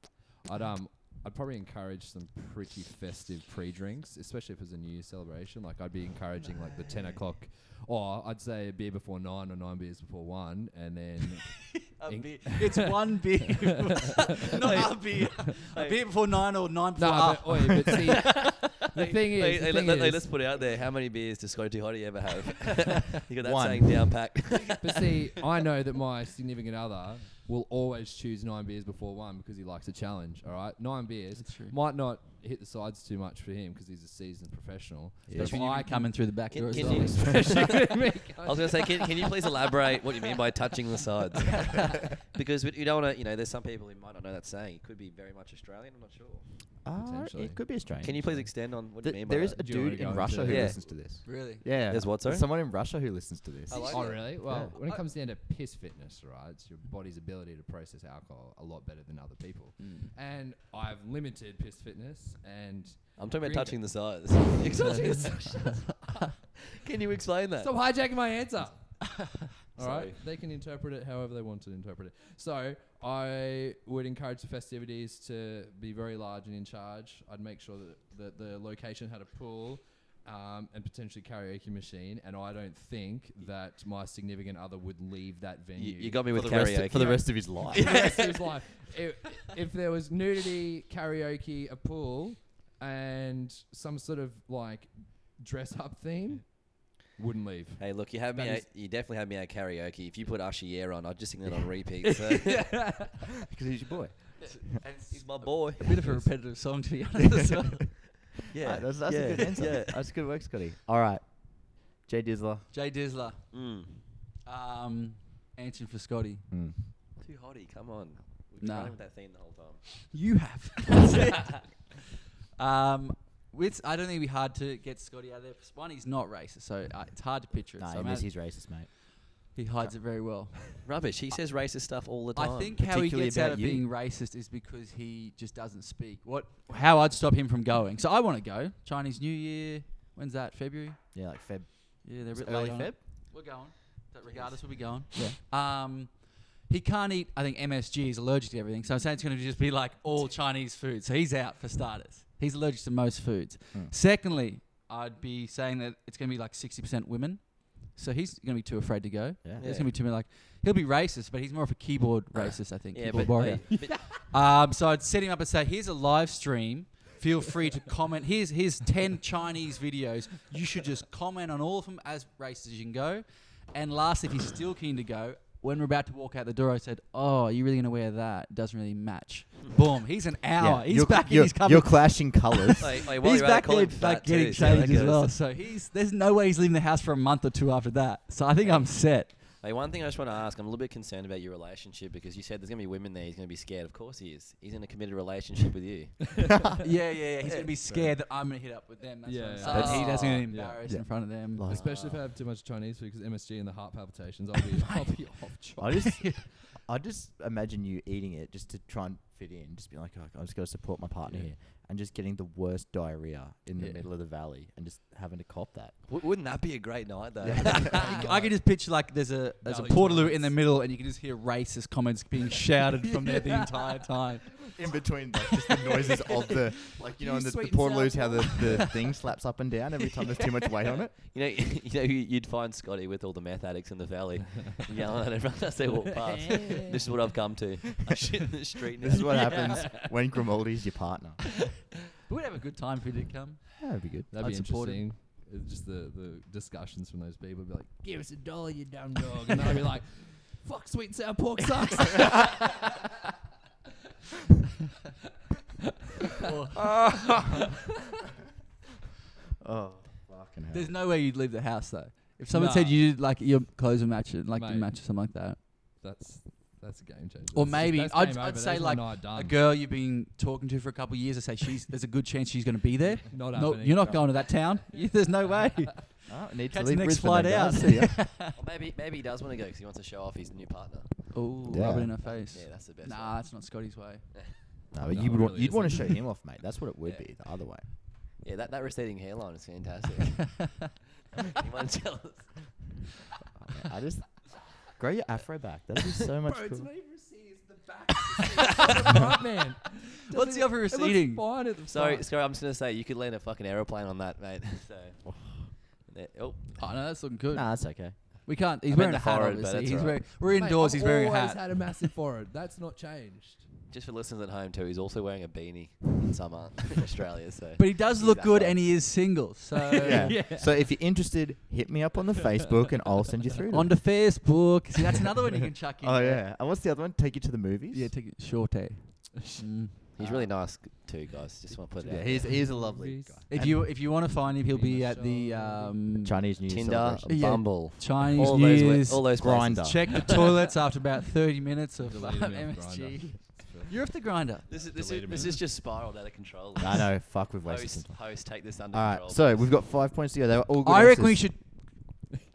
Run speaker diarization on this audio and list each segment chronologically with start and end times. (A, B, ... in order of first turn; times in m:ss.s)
0:00.4-0:13.0 A
0:11.9-0:18.0 B
0:14.6-0:16.0 C
0:17.0-0:20.4 A
0:18.2-0:25.3 C
0:23.4-0:24.3 D
0:24.8-0:39.8 A
0:31.4-0:31.8 B
0:35.3-0:35.6 D
0:35.3-0:37.3 B
0:36.5-0:46.7 C
0:46.8-0:54.8 D
0:47.0-0:47.6 A
0:48.0-0:49.7 C
0:49.6-0:51.0 A
0:50.3-0:50.8 C
0:51.2-0:51.6 B
0:51.7-0:52.5 C
0:53.7-0:55.1 B
0:53.7-0:54.3 C
0:53.9-1:06.0 A
0:59.8-1:00.1 B
1:03.2-1:05.7 C
1:06.7-1:07.7 C
1:07.6-1:09.2 A
1:09.7-1:10.2 C
1:09.8-1:26.2 A
1:25.7-1:28.6 C
1:26.3-1:27.8 D
1:27.7-1:38.6 A
1:37.8-1:42.9 C
1:42.0-1:43.3 A
1:43.4-1:44.5 D
1:44.4-1:48.0 B
1:45.1-1:46.0 C
1:48.3-1:50.0 C
1:48.6-1:52.7 D
1:52.7-1:53.6 B
1:53.5-1:54.1 C
1:54.4-1:56.4 B
1:56.5-1:56.8 D
1:57.2-2:00.1 C
1:58.6-1:59.0 B
2:00.1-2:01.8 B
2:02.6-2:08.3 B
2:07.8-2:10.0 D
2:09.5-2:10.9 B
2:10.8-2:12.8 C
2:12.3-2:21.0 B
2:12.8-2:13.8 D
2:21.1-2:23.0 D
2:22.0-3:09.3 B
2:24.3-2:24.6 C
2:39.4-2:39.7 D
2:39.6-2:39.9 C
2:42.3-2:44.2 C
2:43.1-2:43.6 D
2:43.8-2:44.0 A
3:00.6-3:02.9 D
3:02.8-3:05.3 C
3:08.6-3:16.5 C
3:16.4-3:16.7 A
3:16.8-3:21.6 B
3:17.8-3:18.2 A
3:19.2-3:20.8 A
3:19.6-3:20.4 C
3:19.6-3:20.2 D
3:20.8-3:21.9 D
3:21.7-3:22.2 C
3:21.7-3:25.8 A
3:25.8-3:36.0 D
3:25.8-3:26.4 B
3:36.1-3:38.1 C
3:37.4-3:38.1 D
3:37.6-3:44.6 B
3:37.8-3:38.6 A
3:39.6-3:40.6 A
3:44.6-3:51.1 D
3:45.8-3:46.1 A
3:47.2-3:49.1 A
3:51.3-3:59.8 C
3:56.3-3:57.1 A
3:59.0-4:01.6 D
3:59.3-4:00.1 A
4:02.2-4:05.0 B
4:03.8-4:04.3 D
4:04.3-4:12.8 A
4:16.4-4:17.6 B
4:17.0-4:17.4 D
4:19.6-4:20.9 D
4:20.7-4:25.6 B
4:22.5-4:23.0 A
4:24.5-4:24.9 A
4:26.0-4:29.6 A
4:27.5-4:38.5 B
4:33.3-4:34.2 A
4:35.0-4:35.8 A
4:36.3-4:38.2 D
4:38.5-4:41.3 C
4:41.3-4:44.3 B
4:41.6-4:42.2 D
4:42.2-4:43.4 C
4:44.9-4:47.8 D
4:45.0-4:46.2 A
4:48.4-4:52.9 C
4:53.6-4:56.9 D
4:56.4-5:02.3 A
5:00.3-5:01.5 B
5:01.9-5:06.8 C
5:05.2-5:05.7 D
5:06.8-5:11.8 B
5:07.5-5:08.2 D
5:08.9-5:10.2 C
5:10.5-5:13.7 A
5:13.9-5:18.9 C
5:17.8-5:20.4 B
5:19.7-5:20.8 A
5:20.0-5:24.1 D
5:23.7-5:26.4 B
5:26.0-5:28.1 D
5:27.9-5:30.0 B
5:30.1-5:32.6 C
5:30.2-5:30.5 D
5:32.0-5:36.0 A
5:32.0-5:33.8 D
5:33.5-5:36.4 B
5:36.2-5:37.6 D
5:36.7-5:40.6 C
5:37.3-5:45.5 B
5:39.3-5:40.3 D
5:42.0-5:44.0 A
5:44.7-5:49.8 C
5:44.7-5:45.6 A
5:46.8-5:51.6 D
5:50.8-5:52.3 B